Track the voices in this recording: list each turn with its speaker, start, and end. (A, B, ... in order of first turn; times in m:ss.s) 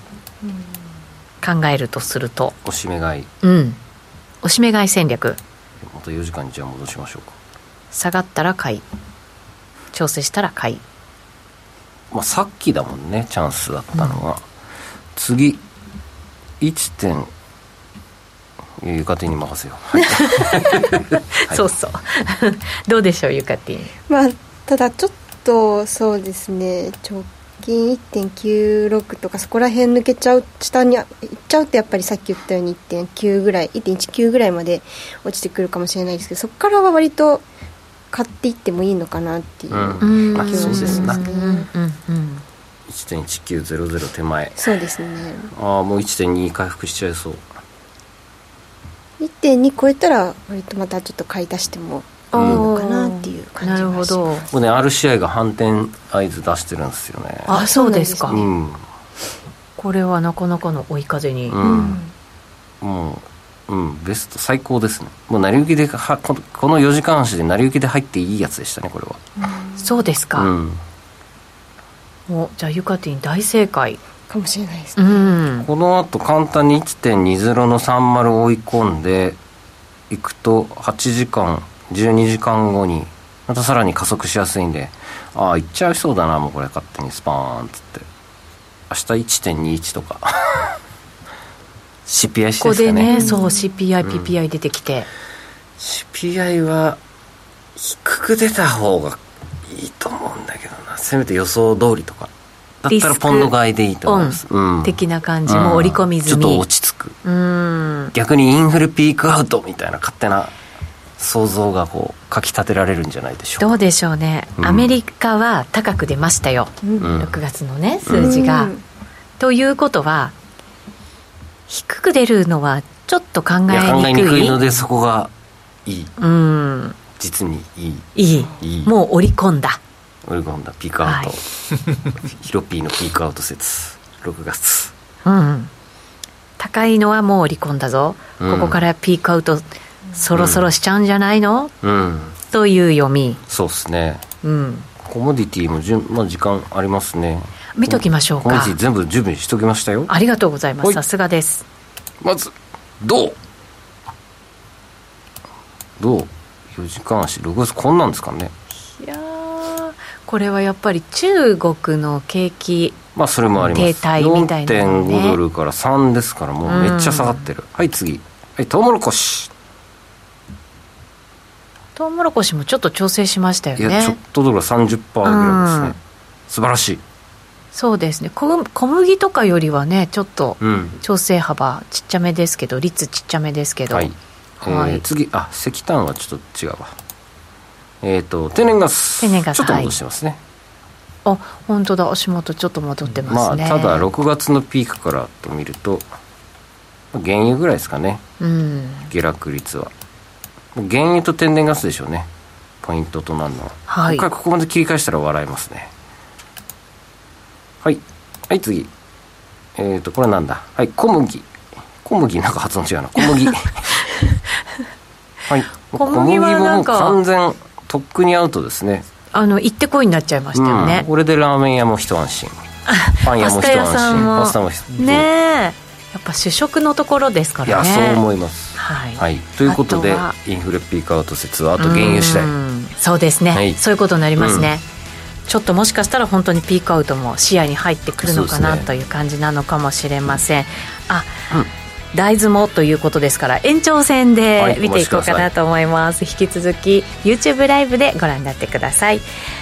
0:00.4-0:00.7 A
0:01.4-0:02.6 B
0:02.6-0:03.3 C
0:03.4-0:03.8 B
0:04.4-0:05.4 B
0:05.8-0:07.4 C
0:07.9-0:08.8 B
0:09.9-0:10.8 B
0:12.1-0:14.4 C
0:15.2-0:15.6 C
0:16.6-0:17.3 C
0:18.8-0:21.6 C
0:20.2-0:20.8 B
0:21.4-0:23.9 B
0:24.1-0:37.4 A
0:38.1-0:41.7 A
0:39.7-0:41.2 C
0:40.0-0:42.4 B
0:42.9-0:44.6 C
0:44.6-0:45.5 A
0:45.5-0:47.4 C
0:49.2-0:54.5 A
0:52.3-0:54.4 B
0:52.4-0:52.6 C
0:54.5-0:57.6 C
0:57.5-0:58.4 B
0:57.5-0:58.5 A
0:58.3-0:58.8 C
0:59.8-1:01.6 B
1:01.5-1:02.0 C
1:01.6-1:02.1 A
1:02.8-1:09.2 C
1:09.4-1:09.8 A
1:09.8-1:10.5 B
1:10.4-1:10.8 C
1:12.3-1:14.0 B
1:14.3-1:15.4 A
1:15.0-1:15.7 B
1:15.6-1:19.4 C
1:20.1-1:28.0 C
1:28.9-1:30.8 C
1:32.1-1:33.3 C
1:32.6-1:35.1 B
1:33.1-1:33.5 A
1:34.0-1:34.3 C
1:35.8-1:37.0 C
1:37.8-1:42.3 C
1:42.8-1:47.2 C
1:42.9-1:43.5 B
1:44.1-1:46.6 B
1:47.2-1:48.1 B
1:48.1-1:50.5 C
1:51.2-1:53.7 C
1:53.6-1:58.7 B
1:54.6-1:54.9 C
1:57.0-1:57.4 C
1:58.0-1:58.4 C
1:58.1-1:58.8 A
1:59.4-2:00.4 B
2:01.7-2:04.6 B
2:03.7-2:05.3 C
2:05.9-2:06.1 C
2:06.2-2:07.0 B
2:07.2-2:08.9 C
2:08.2-2:09.8 B
2:10.2-2:11.4 C
2:11.0-2:11.3 B
2:12.1-2:14.9 C
2:15.2-2:15.7 B
2:16.6-2:21.7 B
2:18.4-2:18.8 C
2:20.4-2:20.6 C
2:21.8-2:22.4 C
2:22.5-2:23.4 B
2:23.5-2:24.2 C
2:24.4-2:24.9 B
2:25.0-2:30.1 C
2:27.8-2:28.8 B
2:30.1-2:31.6 B
2:32.2-2:33.4 C
2:36.0-2:38.5 C
2:39.0-2:43.0 B
2:43.1-2:49.5 C
2:43.7-2:45.4 B
2:46.6-2:47.5 B
2:52.0-2:54.2 B
2:53.8-2:56.0 C
2:55.2-2:55.9 B
2:56.5-2:57.0 C
2:57.7-3:04.1 B
3:00.6-3:01.0 C
3:03.9-3:06.9 C
3:04.6-3:05.0 B
3:08.0-3:10.4 C
3:09.2-3:09.9 B
3:11.2-3:14.1 B
3:13.2-3:16.0 C
3:17.1-3:18.2 C
3:18.4-3:19.1 B
3:19.1-3:19.9 C
3:20.8-3:22.3 C
3:22.8-3:25.9 C
3:23.9-3:24.2 B
3:27.8-3:28.9 C
3:29.8-3:31.5 C
3:32.0-3:33.9 C
3:35.5-3:39.1 C
3:35.9-3:37.2 B
3:39.3-3:41.1 B
3:40.5-3:42.6 C
3:42.9-3:48.2 B
3:43.2-3:45.3 C
3:47.6-3:52.5 C
3:48.8-3:50.4 B
3:51.8-3:54.8 B
3:53.5-3:53.8 C
3:54.4-3:54.7 C
3:55.5-4:01.4 B
3:58.2-3:58.9 C
4:02.1-4:09.2 B
4:04.6-4:05.5 C